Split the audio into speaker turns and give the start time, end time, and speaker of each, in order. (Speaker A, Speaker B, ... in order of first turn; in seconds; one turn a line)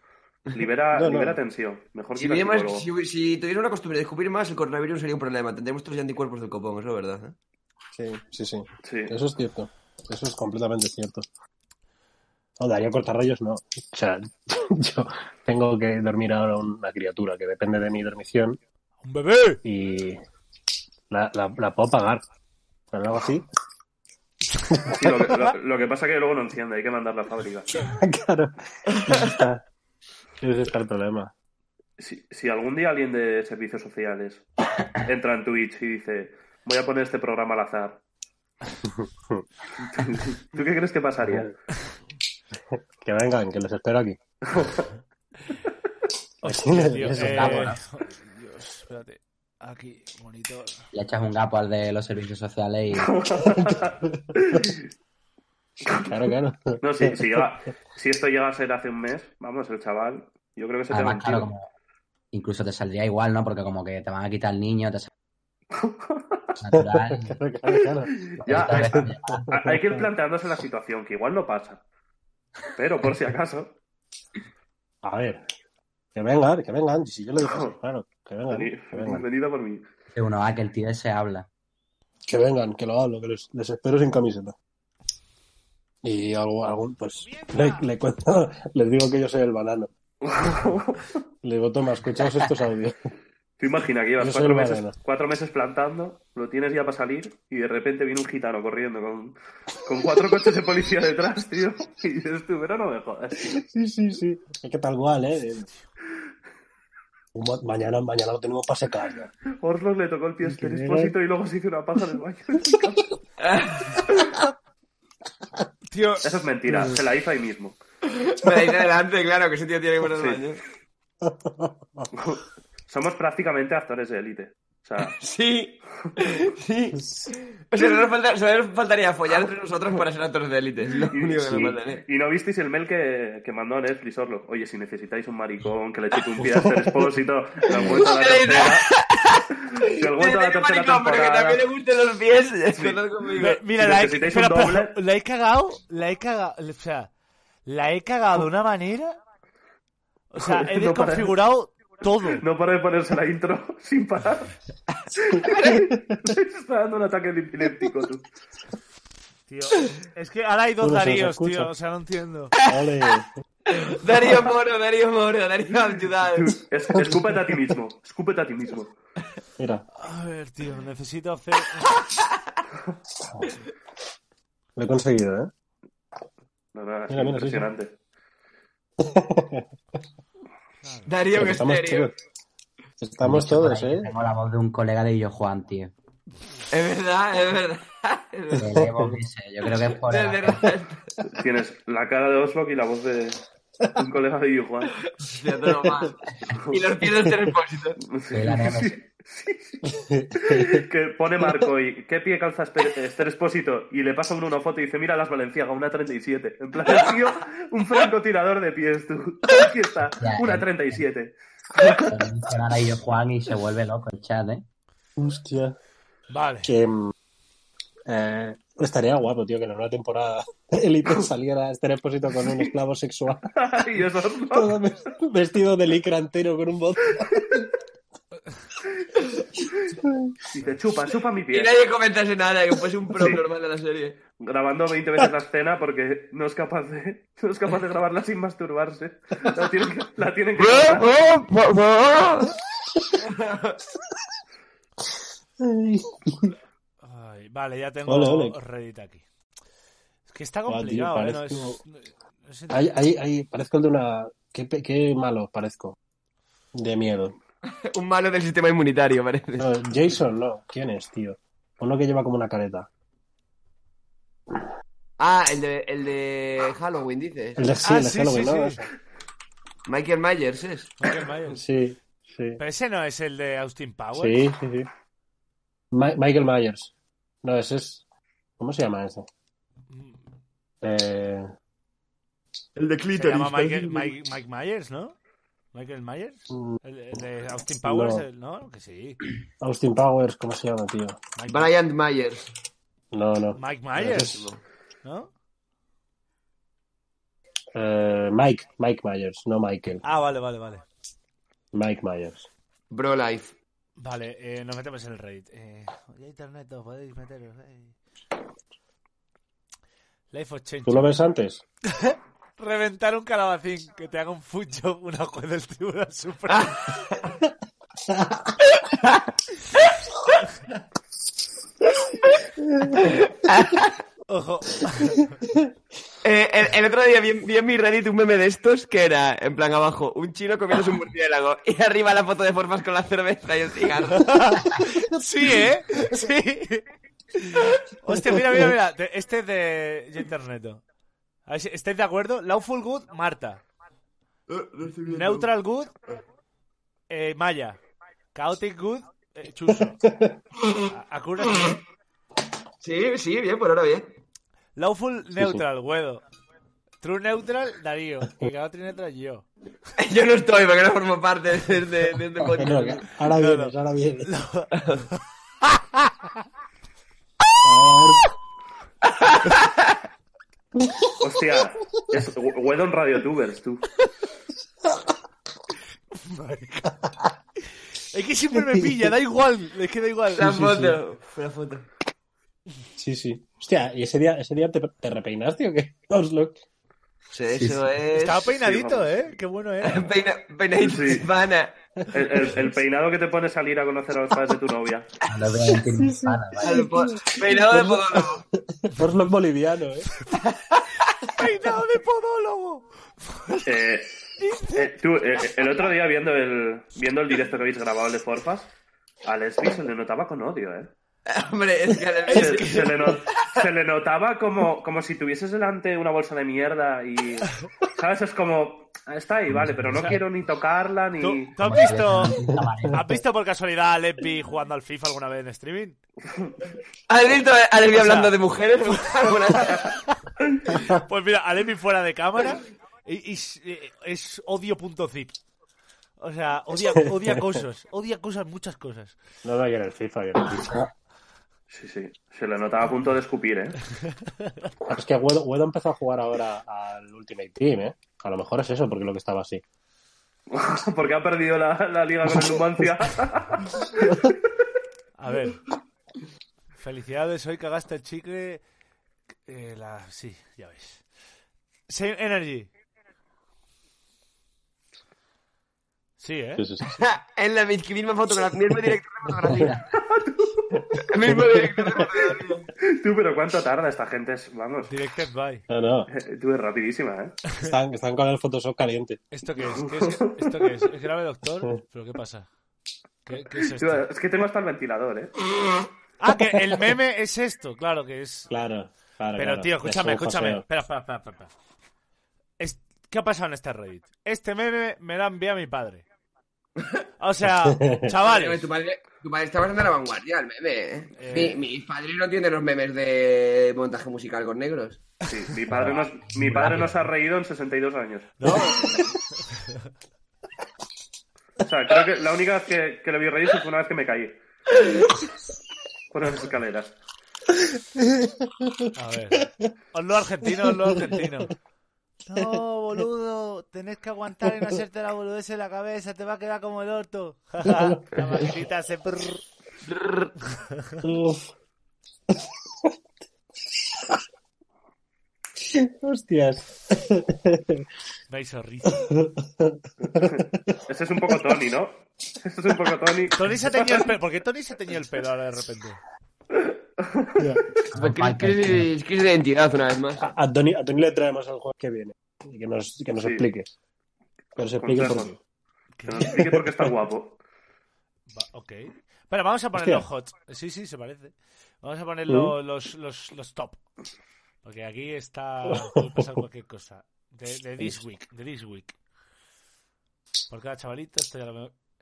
Speaker A: 0.5-2.9
Speaker B: 0.9-1.4
Speaker C: 2.2-7.3
Speaker B: 7.9-11.3
Speaker A: 8.8-9.2
Speaker B: 12.6-18.6
Speaker D: 19.0-19.6
Speaker B: 19.6-20.2
Speaker B: 21.1-22.2
Speaker B: 22.9-23.4
Speaker A: 24.9-27.7
Speaker B: 27.8-28.5
Speaker B: 29.1-29.6
Speaker B: 30.4-31.3
Speaker A: 32.0-34.4
Speaker A: 35.0-38.0
Speaker A: 39.8-41.5
Speaker B: 41.2-41.5
Speaker B: 43.0-44.2
Speaker A: 44.5-44.9
Speaker D: 46.4-50.8
Speaker B: 46.5-47.7
Speaker E: 47.2-47.8
Speaker E: 50.9-53.2
Speaker A: 52.9-54.8
Speaker B: 53.6-54.1
Speaker B: 56.1-57.4
Speaker A: 56.8-61.5
Speaker E: 60.9-61.7
Speaker E: 62.3-65.1
Speaker A: 65.7-66.5
Speaker E: 66.6-67.4
Speaker B: 66.7-68.1
Speaker A: 68.2-71.8
Speaker E: 68.4-69.5
Speaker B: 68.7-70.1
Speaker A: 72.8-73.8
Speaker B: 75.0-75.4
Speaker B: 76.1-79.2
Speaker A: 77.4-77.8
Speaker A: 78.5-79.8
Speaker E: 80.1-81.5
Speaker B: 82.3-84.5
Speaker B: 86.0-89.9
Speaker D: 87.2-87.9
Speaker A: 90.2-91.0
Speaker B: 91.4-93.0
Speaker A: 93.6-103.6
Speaker B: 94.2-95.0
Speaker B: 103.5-105.7
Speaker B: 107.3-109.3
Speaker A: 109.6-113.0
Speaker B: 110.4-111.2
Speaker C: 113.4-114.2
Speaker D: 115.9-116.3
Speaker A: 116.2-117.8
Speaker B: 116.7-117.0
Speaker C: 118.1-120.6
Speaker A: 120.1-120.4
Speaker B: 121.3-122.0
Speaker A: 122.1-125.1
Speaker C: 125.0-127.0
Speaker C: 127.7-132.0
Speaker A: 131.1-138.9
Speaker B: 131.4-131.7
Speaker B: 136.4-137.1
Speaker C: 137.7-143.6
Speaker A: 139.8-141.6
Speaker A: 142.8-143.0
Speaker D: 143.4-147.1
Speaker A: 143.8-145.0
Speaker D: 147.7-149.2
Speaker D: 150.3-152.4
Speaker A: 150.4-151.3
Speaker A: 152.3-154.5
Speaker A: 155.3-158.2
Speaker C: 155.5-155.8
Speaker D: 159.5-162.5
Speaker B: 160.8-161.7
Speaker B: 162.7-163.3
Speaker C: 163.7-166.6
Speaker A: 166.3-168.9
Speaker B: 166.9-167.6
Speaker B: 169.6-169.8
Speaker D: 170.0-171.9
Speaker B: 174.8-175.5
Speaker A: 176.7-177.9
Speaker B: 177.1-177.7
Speaker B: 179.0-179.6
Speaker D: 180.8-181.2
Speaker C: 181.1-182.1
Speaker B: 181.3-182.1
Speaker B: 183.0-184.1
Speaker E: 183.2-185.9
Speaker C: 186.7-188.7
Speaker E: 188.6-190.7
Speaker B: 188.7-189.2
Speaker C: 190.1-191.1
Speaker A: 191.3-193.4
Speaker A: 194.0-194.9
Speaker C: 195.1-198.0
Speaker A: 196.5-196.9
Speaker A: 198.0-199.8
Speaker E: 198.3-199.0
Speaker B: 199.9-200.3
Speaker A: 200.4-212.0
Speaker E: 210.2-211.1
Speaker E: 212.1-214.6
Speaker B: 215.2-215.7
Speaker D: 216.3-216.7
Speaker B: 216.7-217.1
Speaker B: 218.1-223.4
Speaker A: 223.6-224.8
Speaker B: 224.5-227.4
Speaker A: 230.5-231.7
Speaker C: 231.5-234.2
Speaker A: 233.2-233.4
Speaker A: 234.4-241.1
Speaker C: 240.6-242.5
Speaker C: 243.2-243.8
Speaker B: 245.6-246.5
Speaker D: 247.0-249.2
Speaker B: 248.1-248.6
Speaker D: 250.3-253.0
Speaker B: 250.7-251.8
Speaker B: 252.7-255.9
Speaker B: 256.8-257.3
Speaker C: 257.6-259.7
Speaker B: 259.6-262.9
Speaker C: 265.2-267.6
Speaker B: 267.6-268.9
Speaker D: 267.8-268.8
Speaker C: 269.9-270.9
Speaker D: 271.0-271.6
Speaker B: 271.5-272.6
Speaker D: 272.6-274.4
Speaker B: 274.2-274.9
Speaker B: 275.9-276.9
Speaker B: 277.4-278.0
Speaker B: 278.6-279.3
Speaker D: 279.9-280.2
Speaker B: 280.8-281.5
Speaker C: 282.8-284.1
Speaker D: 283.1-285.1
Speaker D: 285.7-289.2
Speaker B: 287.8-288.2
Speaker B: 289.6-291.2
Speaker D: 291.4-291.7
Speaker C: 291.5-292.5
Speaker B: 293.1-294.5
Speaker D: 293.6-294.4
Speaker C: 294.3-294.6
Speaker D: 295.0-295.3
Speaker B: 297.7-300.0
Speaker D: 300.0-300.8
Speaker B: 301.7-302.5
Speaker C: 302.9-303.5
Speaker D: 304.0-307.9
Speaker D: 310.3-311.2
Speaker B: 310.9-311.6
Speaker D: 311.9-316.8
Speaker C: 316.5-317.2
Speaker C: 323.0-323.9
Speaker D: 324.3-325.3
Speaker C: 326.2-334.4
Speaker D: 334.1-336.8
Speaker D: 337.4-340.8
Speaker D: 341.5-343.6
Speaker C: 344.5-345.5
Speaker D: 345.1-345.9
Speaker D: 347.1-347.8
Speaker D: 348.3-350.0
Speaker B: 350.0-350.3
Speaker D: 350.9-351.8
Speaker C: 352.8-354.1
Speaker D: 354.8-356.2
Speaker D: 357.0-359.4
Speaker C: 360.0-363.1
Speaker B: 362.5-364.3
Speaker D: 363.3-364.7
Speaker B: 367.6-368.2
Speaker C: 369.1-369.7
Speaker A: 371.2-373.8
Speaker D: 376.1-376.9
Speaker D: 378.1-380.9
Speaker C: 380.3-381.9
Speaker B: 383.0-386.6
Speaker C: 387.3-388.5
Speaker E: 387.5-387.8
Speaker D: 388.2-390.1
Speaker A: 388.5-389.3
Speaker C: 389.8-391.7
Speaker A: 390.8-391.3
Speaker A: 392.1-395.1
Speaker B: 392.4-392.7
Speaker E: 395.3-396.9
Speaker B: 395.8-398.3
Speaker C: 396.6-398.4
Speaker B: 398.9-400.1
Speaker C: 400.5-400.8
Speaker D: 401.4-402.8
Speaker A: 403.6-404.1
Speaker A: 404.7-408.7
Speaker A: 409.2-410.9
Speaker C: 411.3-413.5
Speaker D: 412.3-412.9
Speaker A: 412.3-421.6
Speaker D: 419.9-420.2
Speaker D: 421.2-422.4
Speaker E: 421.6-423.0
Speaker D: 422.9-426.0
Speaker A: 426.3-426.6
Speaker C: 427.1-429.9
Speaker D: 427.9-428.3
Speaker D: 430.9-435.4
Speaker D: 436.2-439.2
Speaker B: 439.4-440.9
Speaker A: 441.7-443.8
Speaker B: 444.9-449.6
Speaker A: 450.5-453.6
Speaker D: 455.2-455.6
Speaker D: 456.8-458.6
Speaker D: 459.4-461.0
Speaker D: 461.9-462.7
Speaker D: 466.2-466.6
Speaker B: 466.6-466.9
Speaker C: 466.9-469.8
Speaker A: 469.9-470.6
Speaker C: 471.1-472.7
Speaker B: 471.2-471.8
Speaker A: 472.8-474.9
Speaker D: 474.9-475.6
Speaker B: 475.7-476.1
Speaker A: 476.1-477.4
Speaker B: 477.6-479.2
Speaker D: 479.3-482.5
Speaker A: 479.7-480.5
Speaker D: 483.2-484.1
Speaker A: 483.7-485.3
Speaker D: 486.2-488.5
Speaker B: 488.5-490.6
Speaker D: 489.4-491.5
Speaker D: 492.6-496.0
Speaker D: 497.2-498.6
Speaker B: 497.7-498.0
Speaker C: 498.2-505.0
Speaker D: 501.1-501.6
Speaker A: 505.2-508.4
Speaker E: 506.3-506.9
Speaker D: 508.4-508.9
Speaker A: 511.6-514.4
Speaker A: 516.1-517.0
Speaker D: 518.9-521.5
Speaker D: 522.3-529.4
Speaker C: 529.9-530.3
Speaker B: 531.0-531.5
Speaker B: 535.8-537.0
Speaker D: 538.3-539.0
Speaker B: 539.2-540.3
Speaker A: 540.2-544.0
Speaker D: 543.3-546.0
Speaker A: 546.6-547.4
Speaker E: 547.9-548.9
Speaker C: 547.9-550.3
Speaker B: 550.2-553.7
Speaker A: 553.2-553.5
Speaker B: 554.6-555.4
Speaker A: 554.8-555.3
Speaker D: 556.0-556.3
Speaker A: 556.0-557.4
Speaker B: 556.3-556.9
Speaker D: 558.3-563.8
Speaker B: 559.8-560.0
Speaker B: 562.3-562.5
Speaker D: 564.6-569.0
Speaker D: 570.5-571.7